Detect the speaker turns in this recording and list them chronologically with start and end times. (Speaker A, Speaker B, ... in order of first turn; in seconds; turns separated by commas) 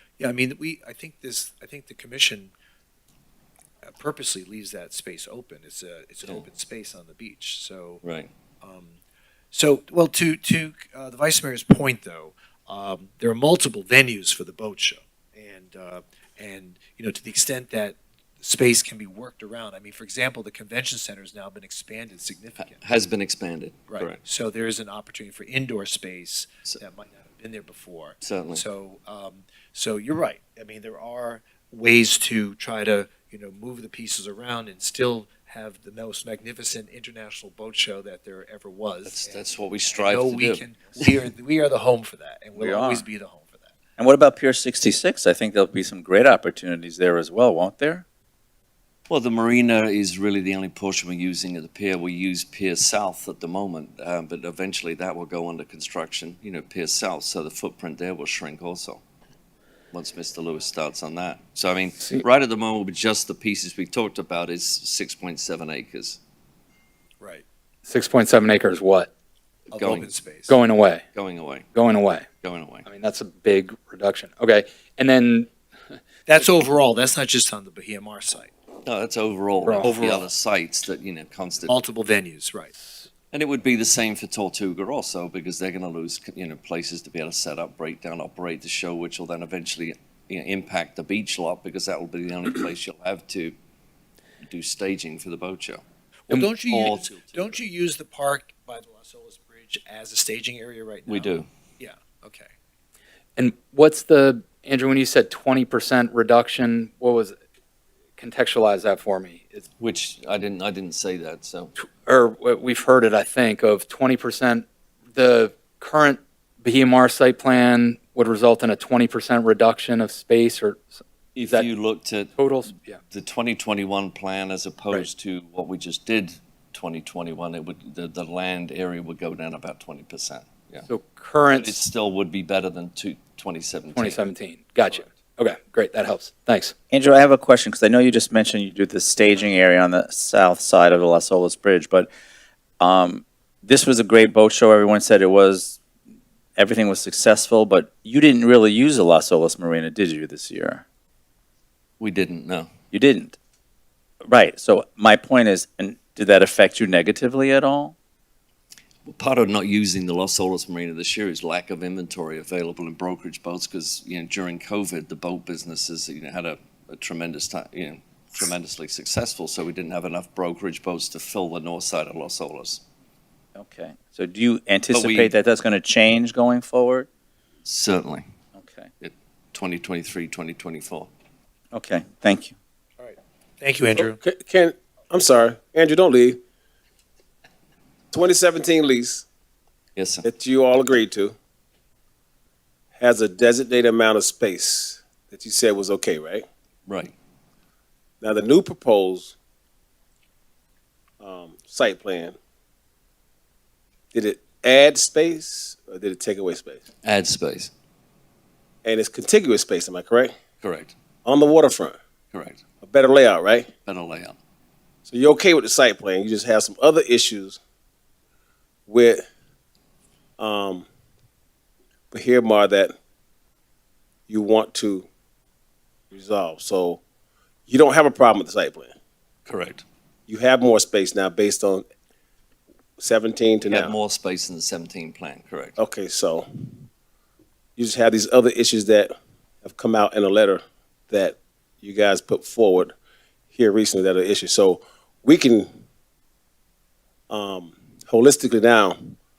Speaker A: 0.2-2.5, Speaker A: 3.8-8.0, Speaker B: 8.0-8.3, Speaker A: 8.6-9.0, Speaker A: 9.5-22.8, Speaker B: 22.6-24.2, Speaker A: 23.9-39.3, Speaker B: 28.2-28.6, Speaker B: 39.0-41.1, Speaker A: 40.1-43.7, Speaker C: 42.5-43.0, Speaker C: 44.0-48.0, Speaker B: 49.1-59.0, Speaker B: 59.9-66.2, Speaker A: 67.2-67.4, Speaker D: 67.8-69.1, Speaker A: 69.7-70.6, Speaker B: 69.7-70.1, Speaker D: 70.5-71.0, Speaker B: 71.1-71.7, Speaker D: 71.7-72.2, Speaker B: 72.4-72.9, Speaker D: 72.8-75.5, Speaker A: 76.2-78.5, Speaker B: 78.8-81.7, Speaker D: 79.6-79.9, Speaker A: 79.8-80.3, Speaker A: 81.7-82.7, Speaker B: 83.3-93.5, Speaker B: 94.4-97.6, Speaker A: 96.3-102.5, Speaker D: 96.3-96.9, Speaker B: 101.1-101.5, Speaker D: 103.4-107.3, Speaker D: 108.2-109.6, Speaker B: 109.8-111.7, Speaker D: 111.8-120.9, Speaker B: 121.3-122.3, Speaker D: 121.4-121.7, Speaker D: 122.4-123.0, Speaker B: 123.1-130.9, Speaker D: 130.9-131.8, Speaker B: 131.5-134.2, Speaker D: 133.9-136.7, Speaker C: 136.9-142.1, Speaker C: 142.8-145.8, Speaker C: 146.6-150.8, Speaker B: 152.0-152.7, Speaker C: 152.9-153.4, Speaker C: 154.2-157.9, Speaker B: 159.0-172.8, Speaker C: 173.6-177.1, Speaker B: 174.9-175.3, Speaker B: 177.6-178.2, Speaker C: 178.5-178.9, Speaker B: 179.0-181.1, Speaker C: 181.7-182.5, Speaker A: 183.0-184.2, Speaker E: 183.9-186.4, Speaker E: 188.1-189.2, Speaker B: 189.9-190.3, Speaker E: 190.2-191.3, Speaker E: 193.0-196.4, Speaker B: 196.9-197.1, Speaker E: 198.2-199.3, Speaker E: 201.2-202.3, Speaker E: 204.1-206.8, Speaker B: 207.0-207.7, Speaker E: 208.8-210.3, Speaker B: 210.6-210.9, Speaker E: 211.2-211.9, Speaker B: 212.3-212.6, Speaker E: 212.8-213.7, Speaker B: 213.8-214.4, Speaker E: 215.0-217.6, Speaker E: 218.9-219.2, Speaker E: 220.4-220.8, Speaker E: 222.1-222.9, Speaker E: 224.3-225.1, Speaker E: 226.1-227.0, Speaker E: 227.7-228.9, Speaker B: 229.4-229.8, Speaker E: 230.3-231.8, Speaker E: 233.0-233.9, Speaker B: 233.7-235.8, Speaker E: 235.8-236.5, Speaker E: 237.8-239.1, Speaker E: 239.6-242.9, Speaker E: 243.5-245.7, Speaker E: 247.3-249.2